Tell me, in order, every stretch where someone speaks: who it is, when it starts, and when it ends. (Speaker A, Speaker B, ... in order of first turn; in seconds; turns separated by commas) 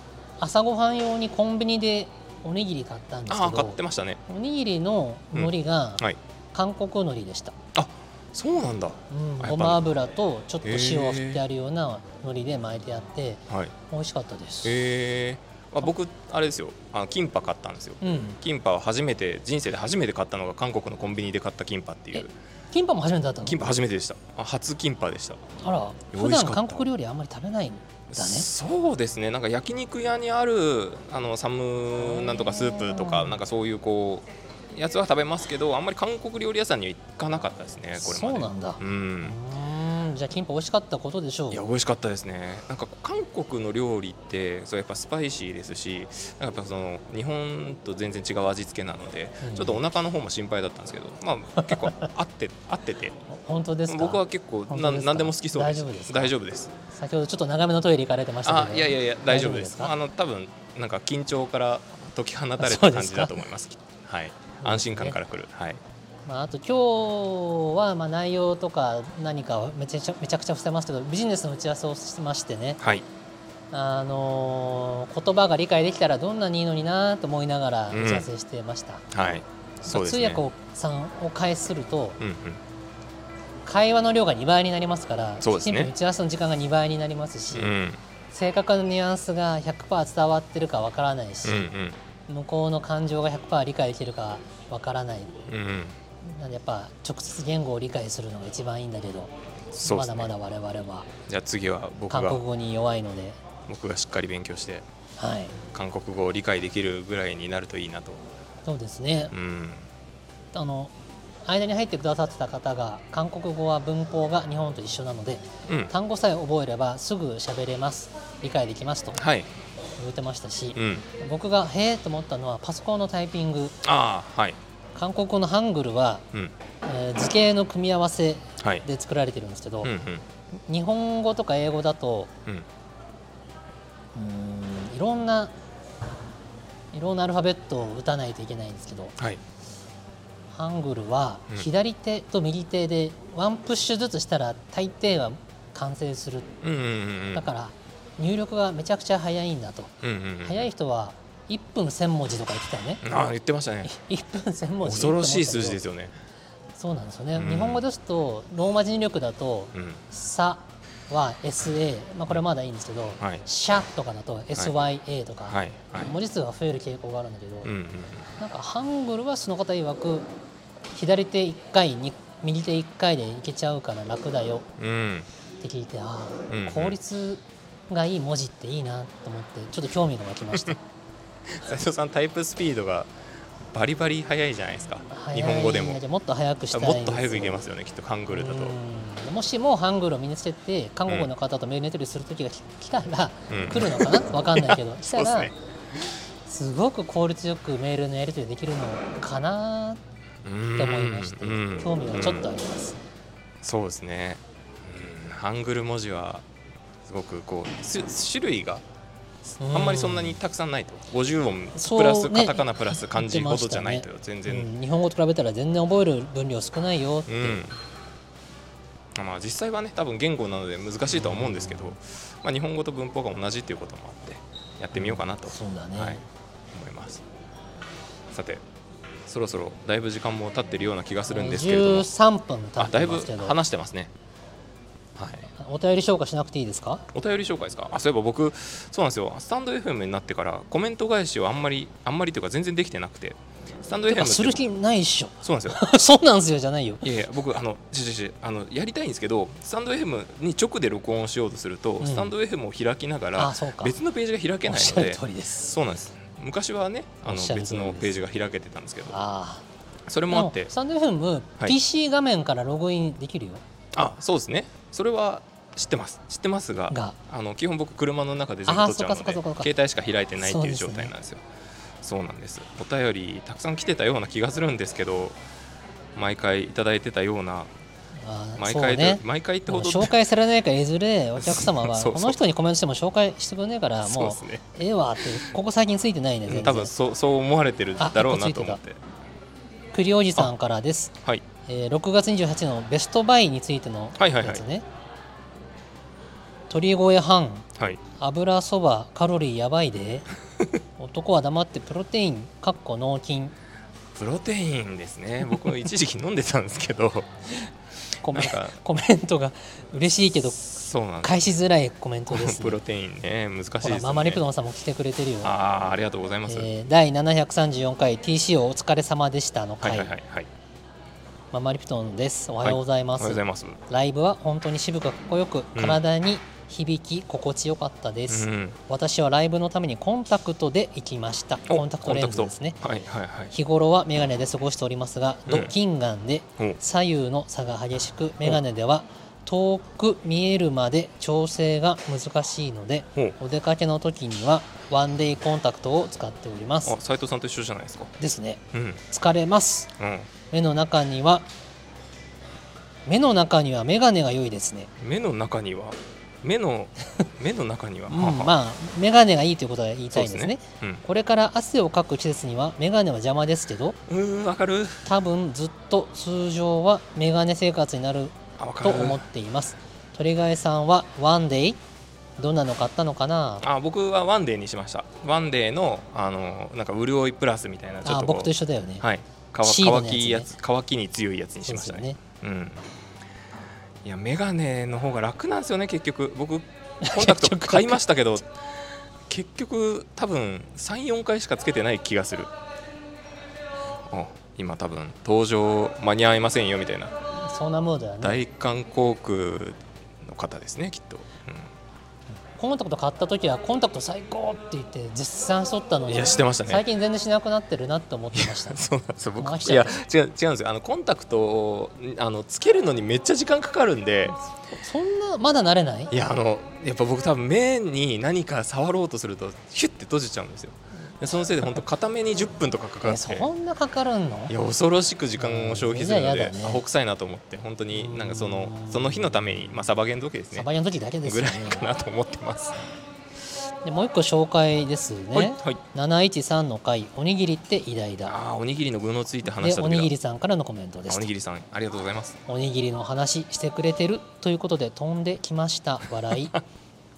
Speaker A: 0.4-7.5, Speaker B: 3.3-4.2, Speaker B: 5.3-6.2, Speaker B: 7.7-9.8, Speaker A: 9.1-14.8, Speaker B: 10.6-11.4, Speaker B: 14.6-22.3, Speaker A: 18.0-18.4, Speaker A: 22.1-23.8, Speaker B: 23.4-25.4, Speaker A: 25.6-28.5, Speaker B: 26.1-26.8, Speaker B: 28.1-39.4, Speaker A: 32.0-33.4, Speaker A: 38.0-41.6, Speaker B: 41.5-53.1, Speaker A: 49.4-49.8, Speaker A: 51.6-52.1, Speaker A: 53.3-56.3, Speaker B: 53.9-56.7, Speaker A: 56.9-59.9, Speaker B: 58.4-65.8, Speaker A: 62.6-63.4, Speaker A: 64.6-65.2, Speaker A: 66.2-72.8, Speaker B: 72.8-73.0, Speaker A: 73.7-79.0, Speaker B: 77.9-78.3, Speaker B: 79.1-80.4, Speaker A: 79.9-82.2, Speaker B: 82.2-82.6, Speaker A: 83.6-87.7, Speaker B: 85.4-85.9, Speaker B: 87.5-88.0, Speaker A: 88.3-91.7, Speaker B: 91.4-92.0, Speaker A: 92.3-95.3, Speaker B: 95.5-96.0, Speaker A: 96.2-99.3, Speaker B: 99.7-100.3, Speaker A: 99.8-101.1, Speaker B: 101.3-102.4, Speaker A: 102.1-103.4, Speaker B: 103.7-104.8, Speaker A: 105.2-105.5, Speaker B: 105.7-108.2, Speaker A: 108.6-109.3, Speaker B: 109.3-109.9, Speaker A: 110.5-110.9, Speaker A: 111.5-119.2, Speaker B: 115.7-115.9, Speaker B: 119.1-119.5, Speaker A: 120.0-123.8, Speaker B: 120.8-121.0, Speaker B: 123.8-124.6, Speaker A: 124.9-126.2, Speaker A: 126.8-129.9, Speaker B: 128.6-128.8, Speaker B: 129.8-130.2, Speaker A: 130.7-132.3, Speaker A: 134.1-135.5, Speaker A: 136.9-139.2, Speaker A: 140.5-146.5, Speaker B: 146.6-147.5, Speaker A: 147.3-149.9, Speaker B: 150.0-150.7, Speaker A: 150.4-153.0, Speaker B: 153.0-153.9, Speaker A: 153.8-155.8, Speaker B: 154.8-156.1, Speaker A: 156.8-167.7, Speaker B: 157.3-157.8, Speaker B: 159.7-160.0, Speaker B: 165.5-166.1, Speaker B: 167.6-168.3, Speaker A: 168.4-170.3, Speaker A: 170.9-174.7, Speaker B: 174.8-175.3, Speaker A: 175.6-180.8, Speaker B: 176.5-177.0, Speaker B: 181.5-183.1, Speaker B: 183.7-186.0, Speaker A: 185.1-187.6, Speaker B: 186.7-188.8, Speaker A: 188.3-195.5, Speaker B: 193.5-195.5, Speaker A: 196.4-200.0, Speaker B: 200.4-202.5, Speaker A: 200.8-203.0, Speaker B: 203.6-206.4, Speaker B: 207.0-208.8, Speaker B: 209.6-214.7, Speaker A: 209.6-210.4, Speaker A: 211.8-217.7, Speaker B: 217.3-217.8, Speaker B: 219.1-226.2, Speaker A: 221.1-221.9, Speaker A: 224.9-226.2, Speaker B: 226.7-227.2, Speaker B: 228.3-228.6, Speaker B: 229.3-232.1, Speaker A: 231.3-233.6, Speaker B: 232.8-234.1, Speaker B: 235.2-235.5, Speaker A: 235.5-237.1, Speaker B: 237.1-244.6, Speaker A: 244.1-247.1, Speaker B: 245.4-245.8, Speaker B: 247.0-259.2, Speaker A: 252.0-252.3, Speaker A: 253.4-254.0, Speaker A: 254.7-255.7, Speaker A: 257.2-258.1, Speaker A: 259.1-259.6, Speaker B: 260.1-260.7, Speaker A: 260.3-263.6, Speaker B: 263.9-271.4, Speaker A: 266.9-267.1, Speaker A: 268.6-269.7, Speaker A: 270.4-271.1, Speaker B: 272.0-275.4, Speaker B: 276.1-277.7, Speaker A: 278.2-286.9, Speaker B: 278.6-280.1, Speaker B: 281.4-282.4, Speaker B: 284.0-284.6, Speaker B: 286.5-289.0, Speaker A: 288.0-288.8, Speaker A: 289.9-291.1, Speaker A: 291.6-294.9, Speaker B: 294.2-294.6, Speaker A: 296.7-300.3, Speaker A: 301.0-303.5, Speaker B: 304.1-307.3, Speaker A: 308.2-312.8, Speaker B: 308.3-308.8, Speaker B: 310.5-311.5, Speaker B: 312.3-314.4, Speaker A: 313.8-315.5, Speaker B: 315.4-316.7, Speaker A: 316.5-320.1, Speaker B: 319.8-320.5, Speaker A: 321.5-332.8, Speaker B: 322.6-323.8, Speaker B: 325.7-326.0, Speaker B: 328.3-328.8, Speaker B: 331.7-333.5, Speaker A: 333.5-346.9, Speaker B: 335.5-335.7, Speaker B: 346.8-348.1, Speaker A: 348.2-349.9, Speaker B: 348.7-349.0, Speaker B: 350.0-350.3, Speaker A: 350.5-351.5, Speaker A: 353.1-354.9, Speaker B: 355.0-358.5, Speaker A: 358.1-364.0, Speaker B: 360.1-361.0, Speaker B: 364.1-365.1, Speaker A: 365.1-371.8, Speaker B: 368.6-369.2, Speaker A: 372.4-373.6, Speaker B: 373.6-382.8, Speaker A: 378.0-379.0, Speaker A: 379.6-380.5, Speaker A: 381.6-382.2, Speaker B: 384.0-388.5, Speaker A: 387.0-388.0, Speaker B: 389.3-392.5, Speaker B: 394.1-397.1, Speaker A: 397.4-398.4, Speaker B: 398.2-401.7, Speaker A: 402.5-408.8, Speaker B: 406.1-406.8, Speaker B: 408.3-414.4, Speaker A: 409.4-410.0, Speaker A: 414.8-416.1, Speaker B: 416.1-423.5, Speaker A: 423.0-424.5, Speaker B: 424.5-430.7, Speaker A: 425.4-426.8, Speaker A: 427.9-429.6, Speaker A: 430.5-431.9, Speaker B: 431.2-432.8, Speaker A: 433.8-438.3, Speaker B: 435.3-435.8, Speaker B: 438.2-440.1, Speaker A: 439.5-441.3, Speaker B: 441.1-442.4, Speaker A: 442.5-446.5